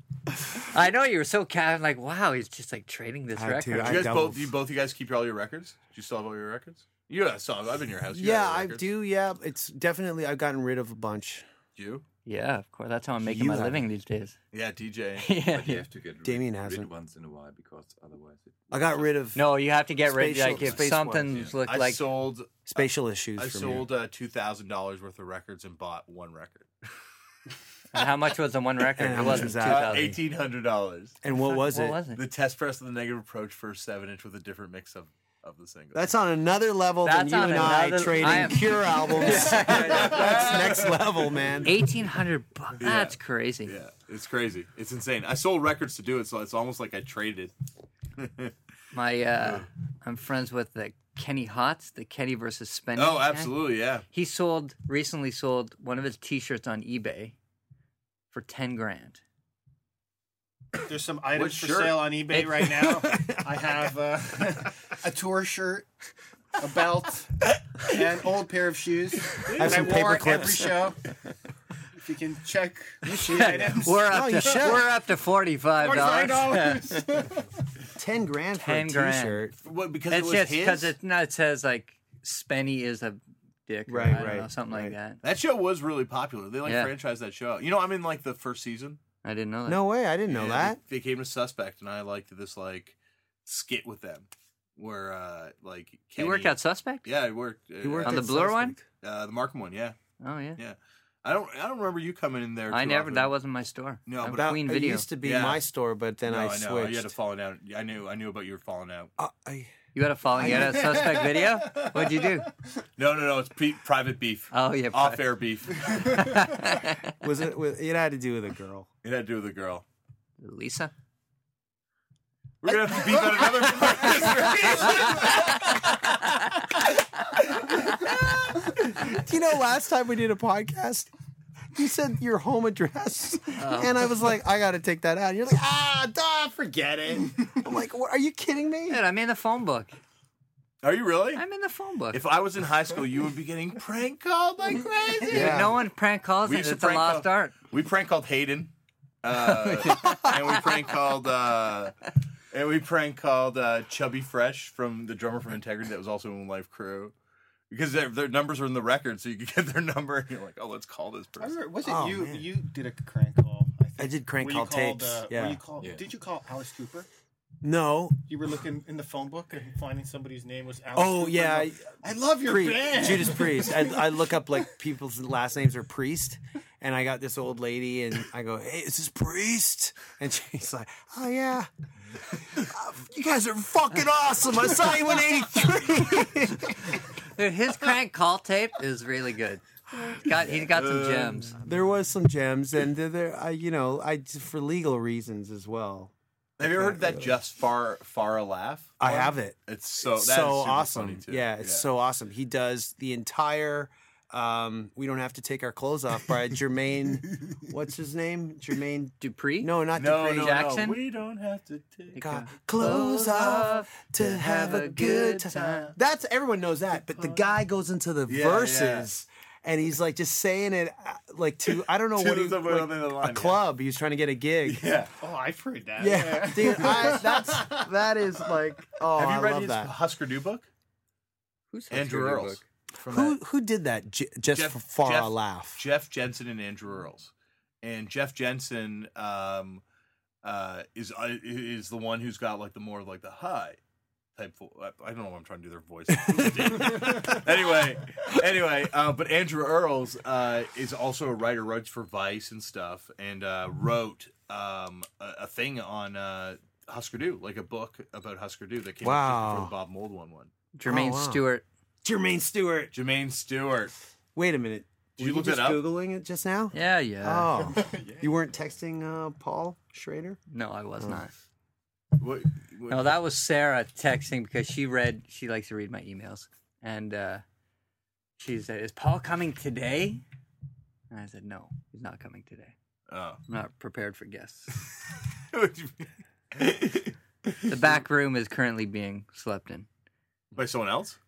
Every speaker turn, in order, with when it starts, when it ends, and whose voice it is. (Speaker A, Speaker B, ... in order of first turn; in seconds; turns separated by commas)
Speaker A: 0.6-4.1, Speaker B: 3.3-4.5, Speaker C: 3.8-8.8, Speaker B: 8.1-11.4, Speaker C: 11.8-12.0, Speaker A: 12.2-14.4, Speaker B: 13.2-13.8, Speaker C: 14.5-15.3, Speaker A: 15.2-15.9, Speaker D: 15.4-19.1, Speaker B: 16.2-16.9, Speaker B: 18.7-19.4, Speaker A: 19.3-22.0, Speaker B: 20.1-21.5, Speaker D: 20.5-21.6, Speaker C: 21.6-26.7, Speaker B: 22.7-23.9, Speaker A: 27.9-30.1, Speaker B: 29.0-30.2, Speaker C: 29.1-31.2, Speaker B: 31.2-32.0, Speaker A: 31.3-32.2, Speaker C: 32.1-36.1, Speaker B: 35.9-41.8, Speaker A: 37.0-40.5, Speaker C: 39.2-41.2, Speaker A: 41.6-43.7, Speaker C: 42.8-47.5, Speaker C: 48.2-48.5, Speaker A: 48.9-53.5, Speaker C: 53.0-54.0, Speaker A: 54.1-57.4, Speaker A: 58.3-59.2, Speaker E: 60.8-65.9, Speaker C: 61.3-62.4, Speaker A: 62.3-62.6, Speaker B: 63.0-63.5, Speaker E: 66.6-71.0, Speaker C: 69.4-70.1, Speaker B: 69.5-70.9, Speaker E: 71.9-74.7, Speaker B: 73.1-74.9, Speaker A: 73.1-77.0, Speaker E: 75.8-77.5, Speaker B: 77.9-79.5, Speaker A: 78.5-79.5, Speaker C: 79.6-80.9, Speaker A: 80.1-85.2, Speaker B: 83.9-84.9, Speaker C: 85.2-89.0, Speaker A: 86.6-86.9, Speaker A: 89.2-89.8, Speaker B: 89.7-90.8, Speaker C: 90.3-98.3, Speaker A: 96.2-97.1, Speaker B: 97.8-98.8, Speaker A: 98.0-98.8, Speaker C: 99.0-100.0, Speaker A: 100.2-100.6, Speaker C: 100.6-103.3, Speaker A: 102.7-105.0, Speaker C: 104.1-104.5, Speaker B: 104.2-107.1, Speaker C: 105.2-105.6, Speaker C: 106.2-109.1, Speaker B: 109.2-109.7, Speaker A: 109.9-112.5, Speaker B: 110.4-111.0, Speaker E: 110.4-112.3, Speaker C: 113.0-116.3, Speaker A: 114.5-115.2, Speaker A: 115.8-117.1, Speaker B: 117.2-118.9, Speaker C: 119.0-119.8, Speaker A: 120.4-120.9, Speaker C: 122.6-126.4, Speaker B: 124.0-125.2, Speaker A: 124.7-126.3, Speaker C: 127.5-128.1, Speaker B: 128.6-131.1, Speaker B: 131.7-139.0, Speaker A: 133.6-134.1, Speaker A: 138.9-139.9, Speaker C: 140.8-141.4, Speaker A: 141.3-142.2, Speaker C: 142.1-145.8, Speaker B: 145.3-145.8, Speaker A: 145.3-147.5, Speaker C: 146.4-148.7, Speaker C: 149.2-152.0, Speaker A: 149.3-150.9, Speaker C: 152.5-157.1, Speaker C: 157.7-161.6, Speaker E: 161.4-167.1, Speaker B: 161.8-162.5, Speaker B: 164.0-165.6, Speaker D: 165.8-166.1, Speaker B: 167.6-168.2, Speaker E: 168.3-174.2, Speaker B: 170.9-181.7, Speaker B: 182.3-187.0, Speaker A: 187.3-191.6, Speaker C: 190.5-191.5, Speaker B: 191.6-197.3, Speaker C: 196.6-201.9, Speaker B: 199.0-210.6, Speaker A: 209.2-209.7, Speaker C: 209.9-212.2, Speaker A: 210.3-211.0, Speaker A: 212.1-215.9, Speaker B: 212.2-224.9, Speaker C: 215.0-215.9, Speaker C: 217.1-217.4, Speaker C: 218.3-219.1, Speaker C: 222.1-223.6, Speaker C: 224.6-225.1, Speaker E: 225.2-227.8, Speaker B: 226.0-229.9, Speaker C: 226.6-227.8, Speaker C: 229.1-230.7, Speaker A: 231.7-232.6, Speaker C: 231.9-233.4, Speaker B: 233.1-235.8, Speaker C: 234.5-239.8, Speaker C: 240.4-243.8, Speaker C: 244.3-260.5, Speaker B: 259.0-259.7, Speaker A: 260.7-261.6, Speaker B: 260.8-261.4, Speaker B: 262.0-262.9, Speaker C: 262.9-263.9, Speaker B: 264.3-270.4, Speaker C: 265.2-265.9, Speaker A: 266.7-267.7, Speaker A: 270.5-271.3, Speaker C: 272.2-273.1, Speaker A: 272.9-277.4, Speaker A: 278.4-280.2, Speaker A: 281.1-282.7, Speaker C: 283.1-283.4, Speaker A: 283.5-284.8, Speaker C: 285.4-287.7, Speaker A: 287.6-289.9, Speaker C: 290.5-291.2